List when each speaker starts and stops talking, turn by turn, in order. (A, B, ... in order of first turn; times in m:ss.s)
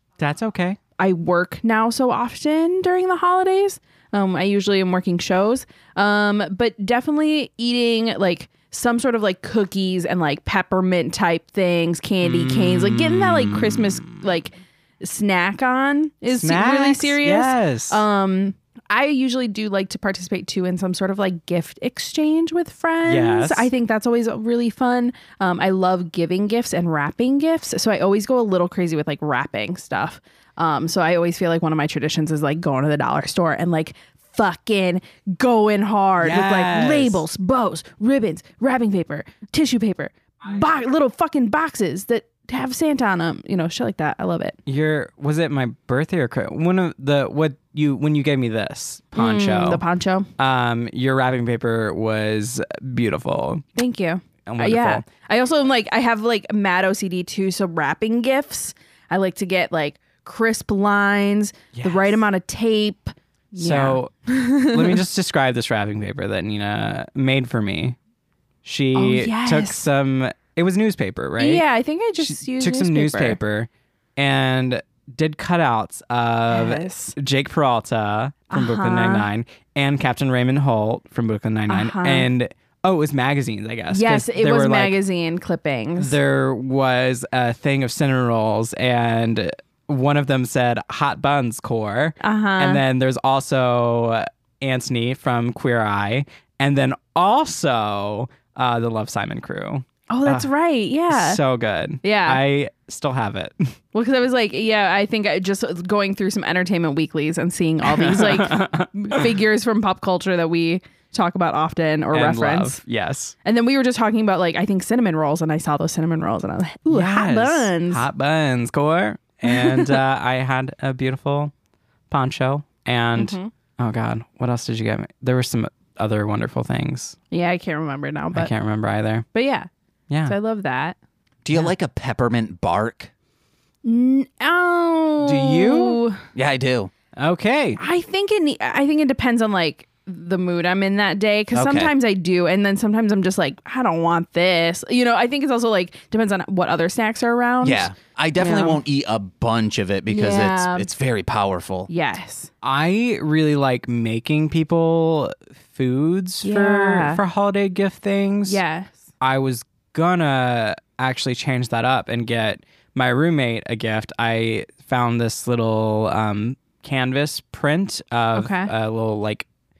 0:00.2-0:00.8 A
0:01.0-0:44.6 B
0:12.2-0:14.2 A
0:16.3-0:18.0 A
0:23.0-0:23.7 A
0:36.2-0:37.2 A
0:44.6-0:49.8 A
0:49.1-0:50.3 B
0:50.4-0:53.6 A
0:53.8-1:05.0 B
0:54.4-0:55.0 A
1:01.7-1:02.2 A
1:03.6-1:08.0 A
1:08.6-1:11.6 A
1:08.9-1:09.8 B
1:11.4-1:13.4 B
1:12.2-1:25.0 A
1:16.5-1:17.1 B
1:18.5-1:19.3 B
1:21.7-1:22.3 B
1:23.9-1:26.2 B
1:26.0-1:40.5 A
1:32.2-1:32.8 B
1:40.1-1:41.4 B
1:41.1-1:43.7 A
1:42.0-1:42.4 B
1:43.9-1:52.8 B
1:47.8-1:49.3 A
1:52.1-1:53.3 A
1:53.4-1:58.0 B
1:56.9-2:01.5 A
1:59.4-2:00.0 B
2:02.1-2:07.2 A
2:03.1-2:03.5 B
2:07.3-2:08.5 B
2:08.3-2:09.3 A
2:09.3-2:09.7 B
2:10.1-2:10.3 A
2:10.2-2:11.0 B
2:11.4-2:13.1 C
2:13.8-2:16.2 B
2:15.2-2:16.0 A
2:16.3-2:16.9 C
2:17.2-2:17.8 A
2:17.8-2:28.8 B
2:21.5-2:21.9 C
2:27.6-2:31.9 C
2:30.1-2:30.9 B
2:31.9-2:32.5 B
2:32.6-2:38.6 A
2:36.4-2:37.2 B
2:38.5-2:39.0 B
2:39.2-2:49.4 A
2:48.3-2:48.7 B